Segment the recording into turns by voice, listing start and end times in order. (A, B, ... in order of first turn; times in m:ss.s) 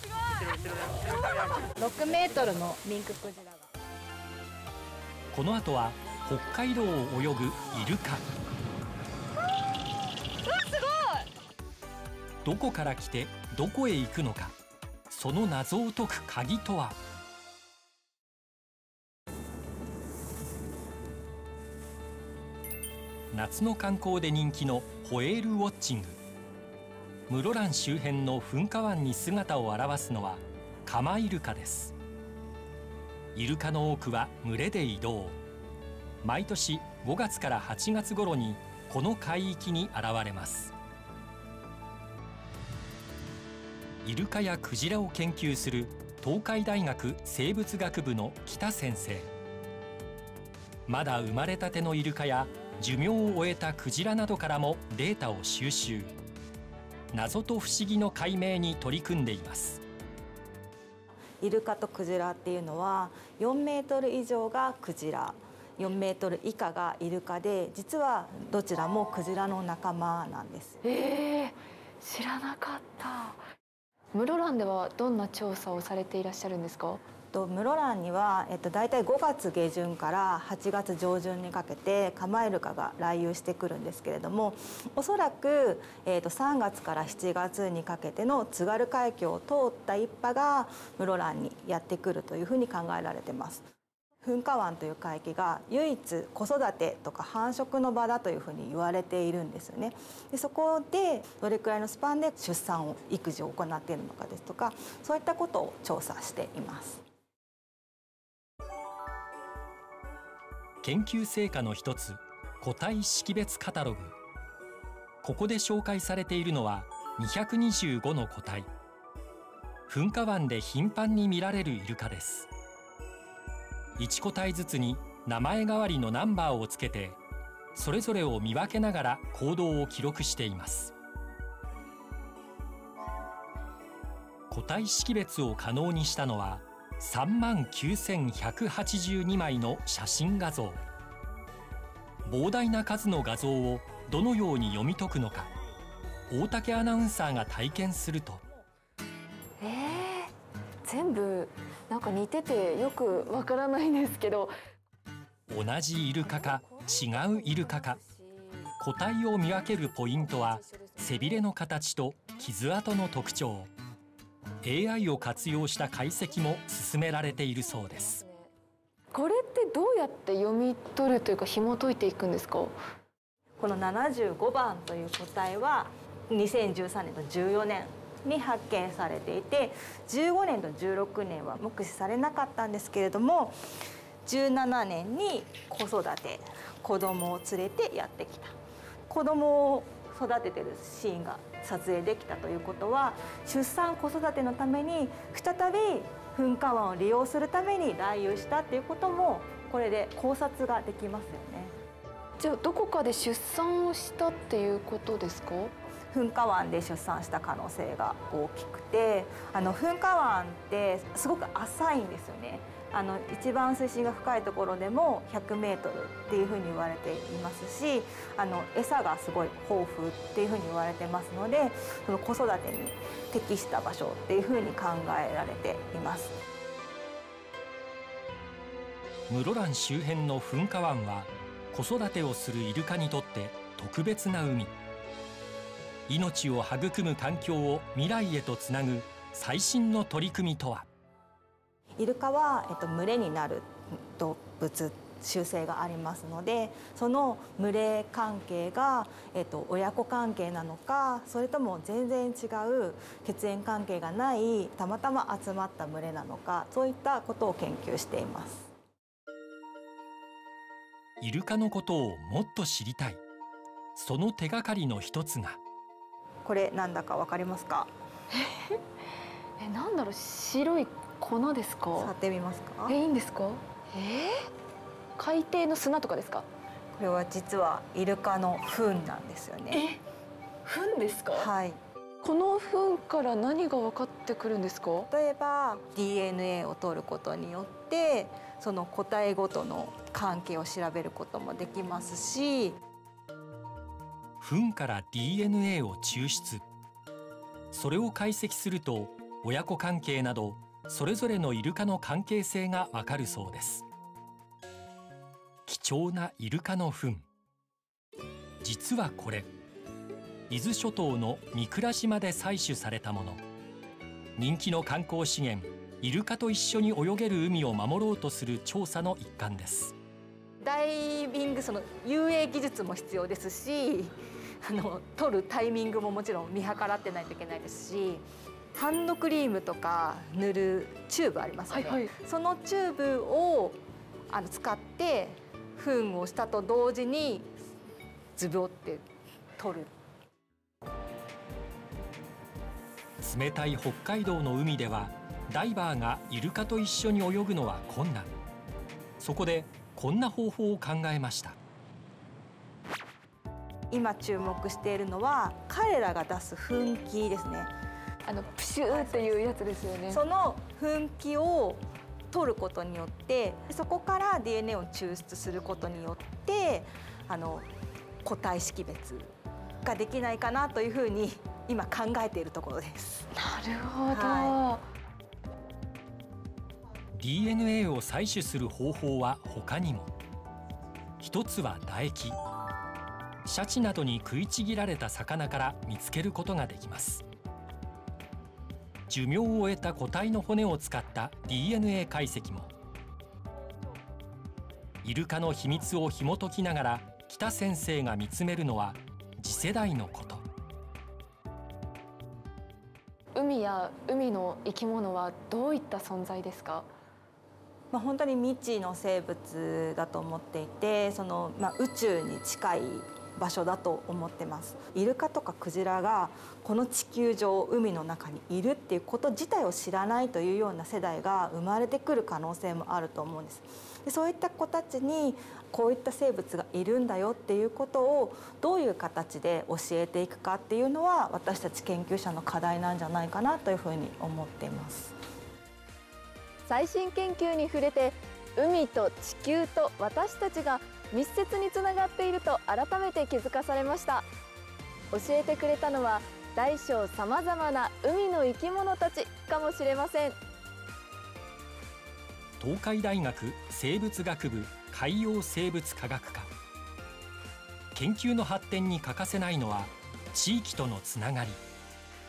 0:00.9-0:03.7 A
0:05.3-0:08.3 B
0:12.4-0:14.6 B
0:15.1-0:17.0 B
0:23.3-0:26.2 B
0:27.3-0:31.9 B
0:33.4-0:35.4 B
0:36.2-0:40.7 B
0:44.0-0:49.3 B
0:50.9-0:56.1 B
0:57.1-0:59.8 B
1:01.4-1:10.8 A
1:10.8-1:13.4 C
1:14.1-1:17.0 C
1:17.3-1:33.7 A
1:34.2-1:47.0 A
1:50.8-1:54.2 B
1:55.2-1:58.7 B
1:59.9-2:02.5 B
2:04.0-2:07.2 B
2:07.8-2:10.9 B
2:14.5-2:20.8 B
2:22.3-2:25.5 B
2:26.3-2:28.4 B
2:29.6-2:30.3 C
2:30.8-2:34.5 C
2:35.5-2:38.0 B
2:36.2-2:38.7 C
2:38.8-2:43.7 B
2:39.8-2:41.4 C
2:44.6-2:48.2 B
2:45.1-2:46.2 C
2:47.5-2:48.5 C
2:49.1-2:52.8 C
2:53.6-3:03.6 A
3:04.2-3:08.6 A
3:09.1-3:21.8 A
3:22.4-3:25.7 C
3:26.1-3:46.4 A
3:49.3-3:54.8 B
3:56.1-4:00.9 B
4:02.0-4:18.7 A
4:21.2-4:23.2 B
4:24.0-4:25.6 B
4:26.4-4:27.9 A
4:28.4-4:28.8 C
4:29.6-4:32.1 C
4:32.0-4:33.0 A
4:32.9-4:34.4 C
4:35.2-4:36.5 C
4:37.0-4:39.8 A
4:39.7-4:40.0 C
4:40.6-4:41.5 C
4:41.4-4:41.8 A
4:42.2-4:45.1 C
4:45.1-4:52.8 A
4:54.4-4:56.6 B
4:57.7-5:03.8 B
5:05.7-5:07.3 B
5:08.6-5:09.5 B
5:10.5-5:13.4 B
5:14.4-5:20.0 B
5:20.6-5:37.5 A
5:31.7-5:32.1 C
5:38.4-5:39.0 A
5:39.6-5:39.9 A
5:43.2-5:48.3 B
5:49.2-5:51.6 B
5:53.9-5:57.7 A
5:58.3-6:00.2 C
5:58.9-5:59.6 A
6:00.1-6:07.7 A
6:08.2-6:13.3 A
6:13.3-6:14.8 C
6:14.1-6:14.6 A
6:17.2-6:20.1 B
6:21.2-6:22.4 B
6:23.5-6:27.2 B
6:29.1-6:32.7 B
6:35.0-6:40.4 B
6:43.4-6:46.9 C
6:47.9-7:15.1 A
7:16.7-7:24.3 C
7:25.1-7:30.4 C
7:32.6-7:36.5 B
7:37.9-7:41.6 B